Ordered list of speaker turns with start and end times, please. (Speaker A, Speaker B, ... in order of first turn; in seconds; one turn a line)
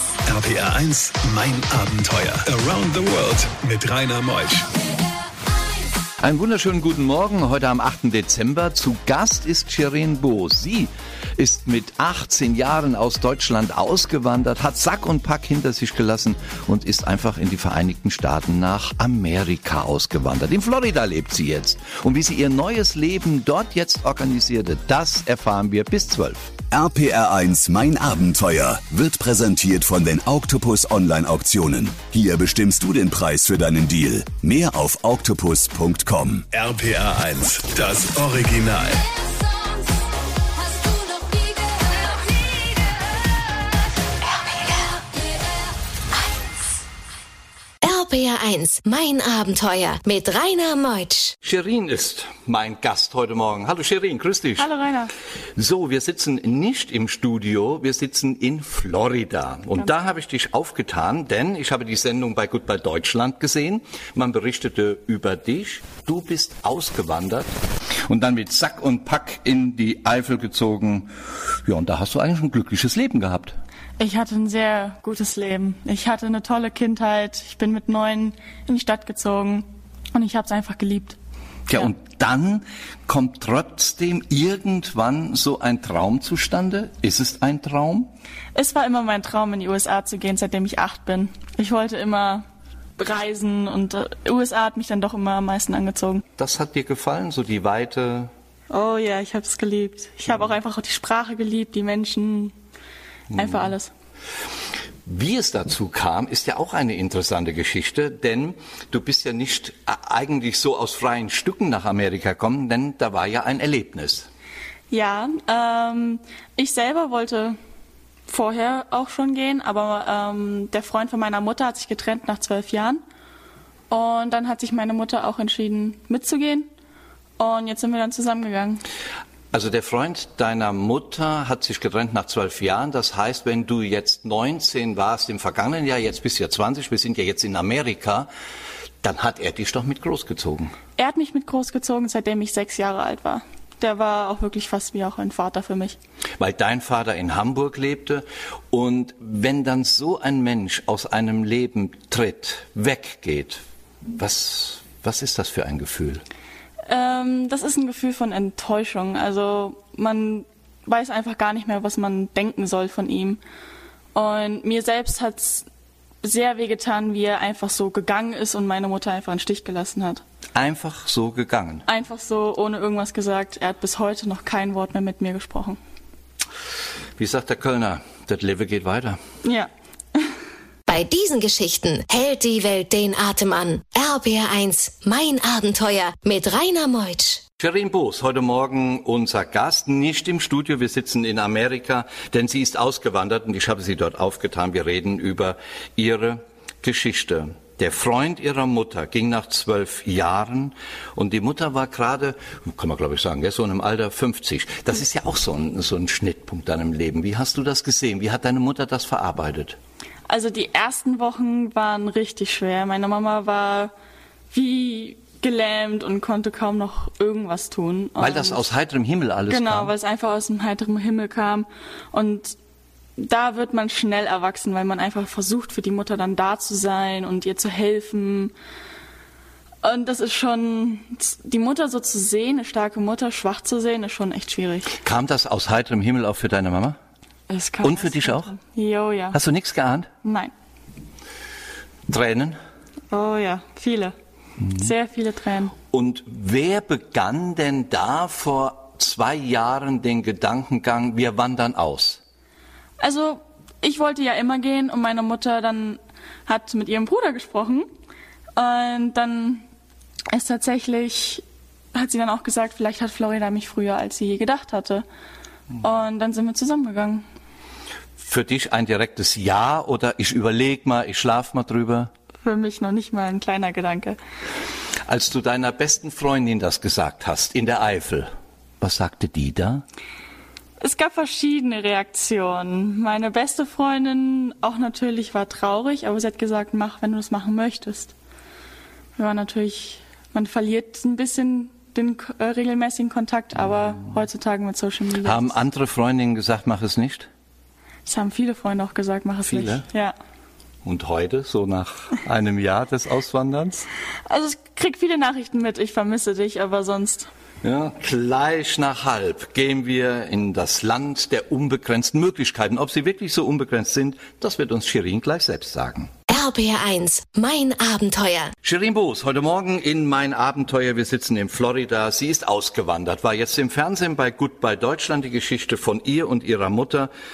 Speaker A: 0.2-4.7
Speaker B: 6.2-26.5
Speaker C: 26.7-36.5
Speaker A: 36.5-39.1
Speaker D: 47.8-51.3
Speaker B: 51.4-54.7
Speaker E: 54.6-55.1
Speaker B: 55.6-67.5
Speaker B: 68.1-71.1
Speaker B: 71.7-73.5
Speaker E: 74.0-81.2
Speaker B: 81.7-88.1
Speaker E: 88.5-92.5
Speaker E: 93.0-96.2
Speaker B: 96.4-98.3
Speaker E: 98.7-102.5
Speaker E: 103.3-103.9
Speaker B: 103.4-103.7
Speaker B: 105.1-114.3
Speaker E: 114.9-117.6
Speaker E: 118.3-123.0
Speaker E: 123.9-126.7
Speaker E: 127.4-128.8
Speaker B: 129.5-138.3
Speaker B: 139.0-140.7
Speaker E: 141.0-146.0
Speaker B: 146.4-153.6
Speaker B: 154.1-156.2
Speaker E: 156.9-163.4
Speaker E: 164.1-165.7
Speaker E: 166.2-170.2
Speaker B: 170.6-171.8
Speaker E: 171.9-175.8
Speaker B: 177.2-179.2
Speaker E: 179.4-180.2
Speaker D: 180.9-187.4
Speaker B: 187.6-209.8
Speaker E: 210.3-213.9
Speaker E: 214.5-218.7
Speaker B: 218.2-219.9
Speaker E: 219.5-222.6
Speaker E: 223.2-228.5
Speaker E: 229.8-235.0
Speaker B: 235.0-237.0
Speaker E: 237.5-239.4
Speaker B: 237.8-238.5
Speaker B: 239.3-240.1
Speaker E: 240.2-240.5
Speaker B: 242.1-242.6
Speaker E: 243.1-244.1
Speaker E: 244.7-245.8
Speaker B: 245.9-252.2
Speaker E: 253.0-257.9
Speaker E: 258.6-259.6
Speaker E: 260.3-265.1
Speaker E: 265.8-267.2
Speaker B: 268.2-272.1
Speaker E: 272.4-274.2
Speaker B: 275.1-279.8
Speaker E: 280.8-288.1
Speaker E: 289.2-295.6
Speaker B: 295.2-297.3
Speaker E: 298.1-300.1
Speaker B: 299.5-299.8
Speaker B: 300.9-303.9
Speaker E: 304.3-307.3
Speaker B: 307.6-316.1
Speaker D: 316.3-318.5
Speaker B: 318.6-327.1